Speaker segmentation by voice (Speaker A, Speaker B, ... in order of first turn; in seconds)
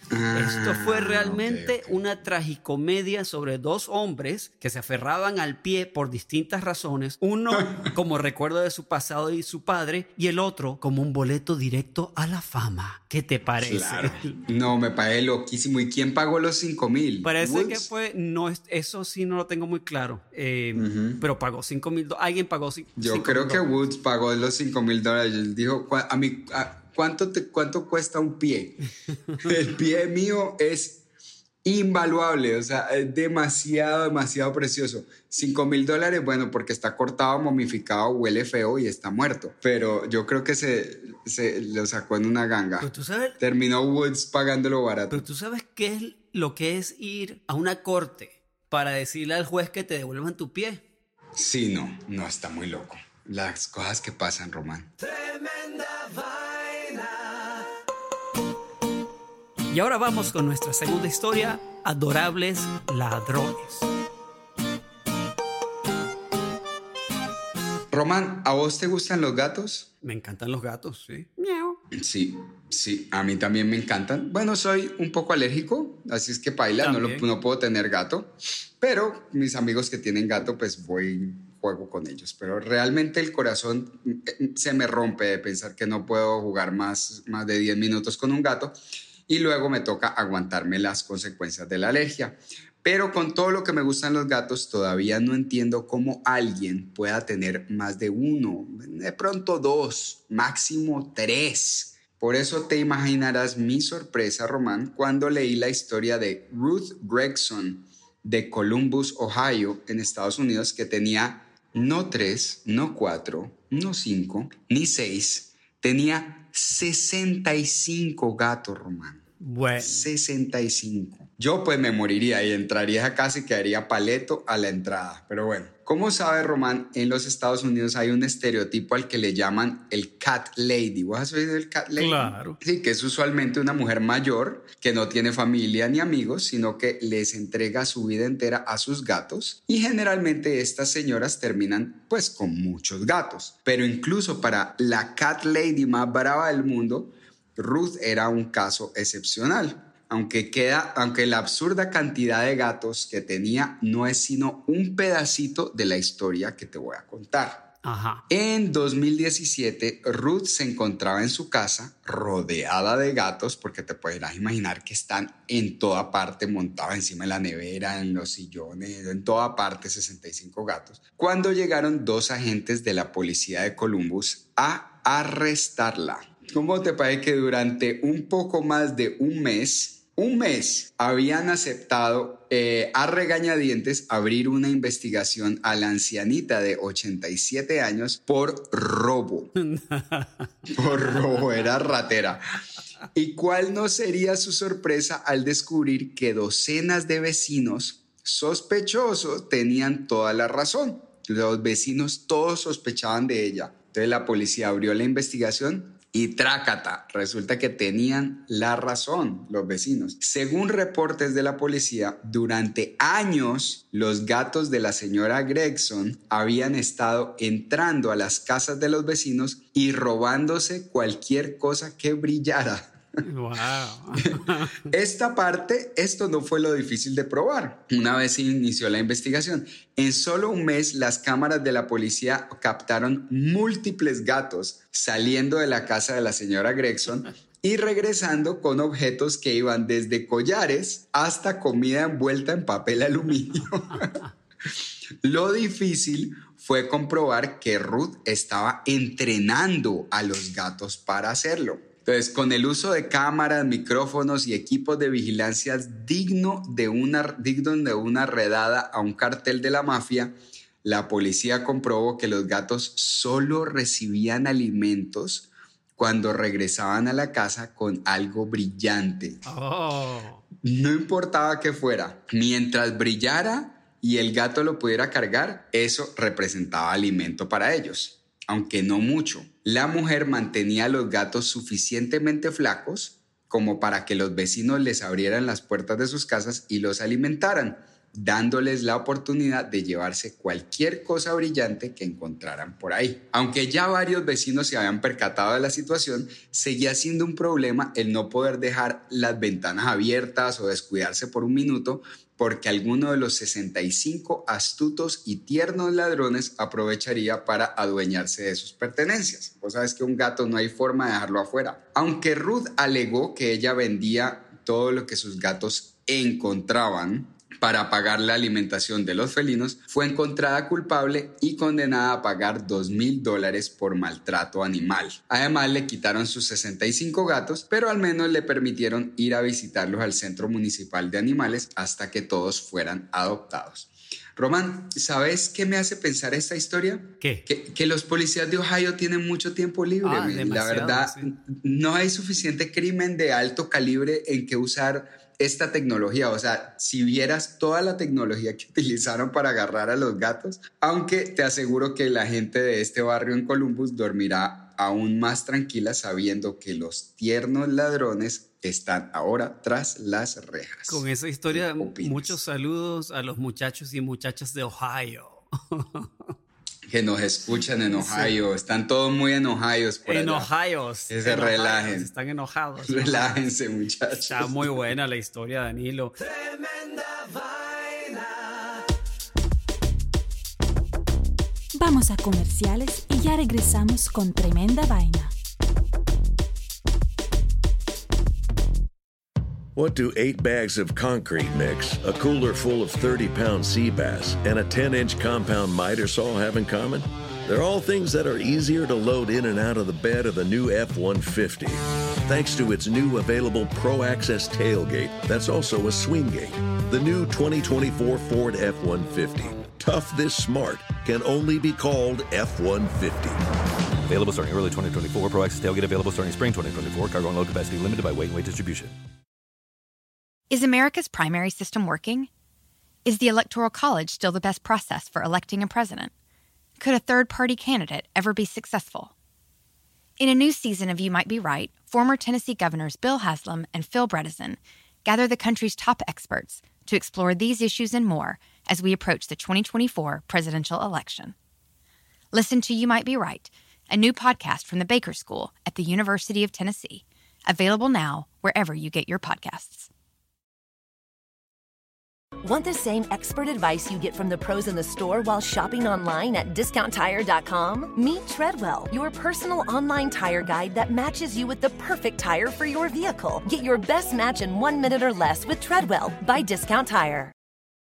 Speaker A: 0.1-1.9, 7.6-7.9, 13.6-17.9, 20.8-21.2, 23.0-28.8, 29.4-31.0, 31.6-45.2, 51.4-54.9, 67.9-69.9, 72.0-119.2, 119.8-157.7, 158.3-189.5, 190.7-192.4, 193.1-222.9, 224.9-244.2, 245.2-269.4, 270.6-362.4, 366.9-370.5, 371.1-372.1, 372.9-374.7
Speaker B: 0.3-14.4, 17.2-23.7, 42.8-43.4, 45.1-50.8, 59.7-63.9, 70.0-71.8, 76.8-77.2, 119.4-120.1, 132.0-132.6, 157.8-158.2, 189.6-190.5, 223.2-224.8, 269.4-270.4, 337.2-337.4, 340.0-341.3, 360.9-366.3, 367.9-368.4, 370.1-373.3, 374.2-376.1
Speaker C: 381.8-385.3
Speaker D: 389.7-413.4
Speaker E: 414.1-418.9
Speaker F: 420.5-422.3, 423.0-426.1, 426.8-429.1, 430.2-441.3, 442.3-449.9
Speaker G: 452.4-467.3